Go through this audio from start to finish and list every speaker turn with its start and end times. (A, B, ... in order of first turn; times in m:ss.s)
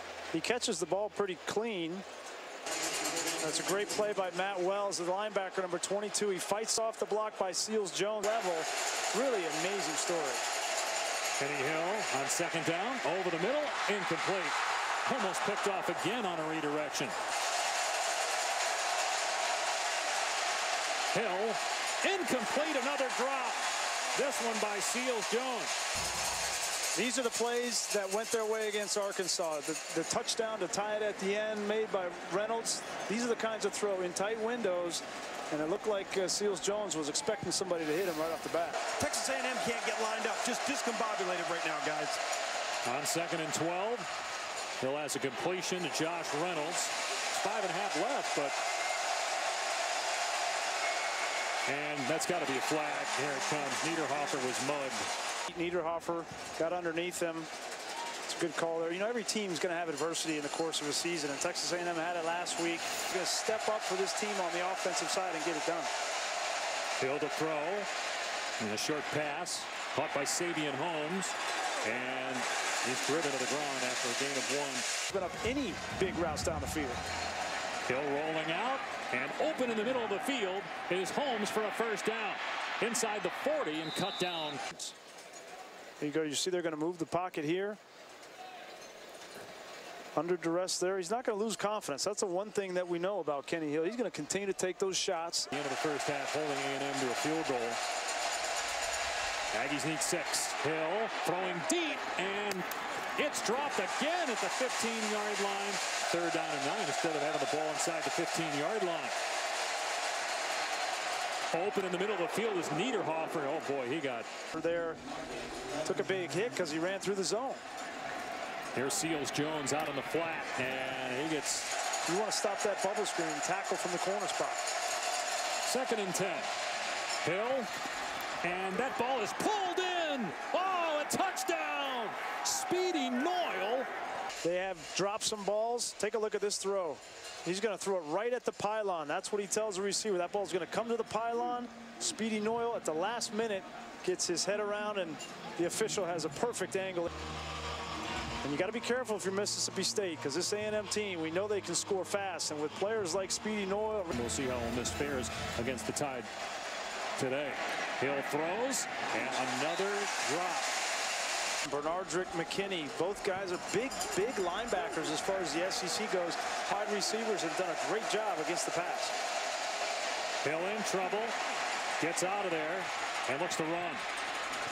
0:00.3-0:02.0 A
0:03.4-0:10.4 A
0:11.4-0:17.2 B
0:21.1-0:23.6 B
0:24.1-0:25.7 B
0:26.9-0:38.9 A
0:39.0-0:42.2 C
0:42.8-0:44.1 B
0:44.8-0:48.6 B
0:51.6-0:55.1 B
0:55.5-0:57.5 A
0:58.2-1:05.9 A
1:07.0-1:07.9 B
1:08.6-1:14.9 B
1:15.1-1:17.0 A
1:17.8-1:24.9 B
1:26.0-1:27.8 A
1:30.1-1:35.5 A
1:35.5-1:37.8 B
1:39.5-1:49.2 B
1:51.5-1:54.3 B
1:54.5-1:55.0 A
1:55.8-1:57.6 A
1:58.7-2:01.7 B
2:02.0-2:04.6 A
2:05.6-2:06.5 B
2:07.2-2:07.7 B
2:08.4-2:13.9 B
2:14.4-2:27.1 A
2:28.4-2:34.1 A
2:34.1-2:36.3 B
2:37.2-2:40.7 B
2:41.6-2:49.1 A
2:50.4-2:51.4 B
2:52.0-2:54.0 B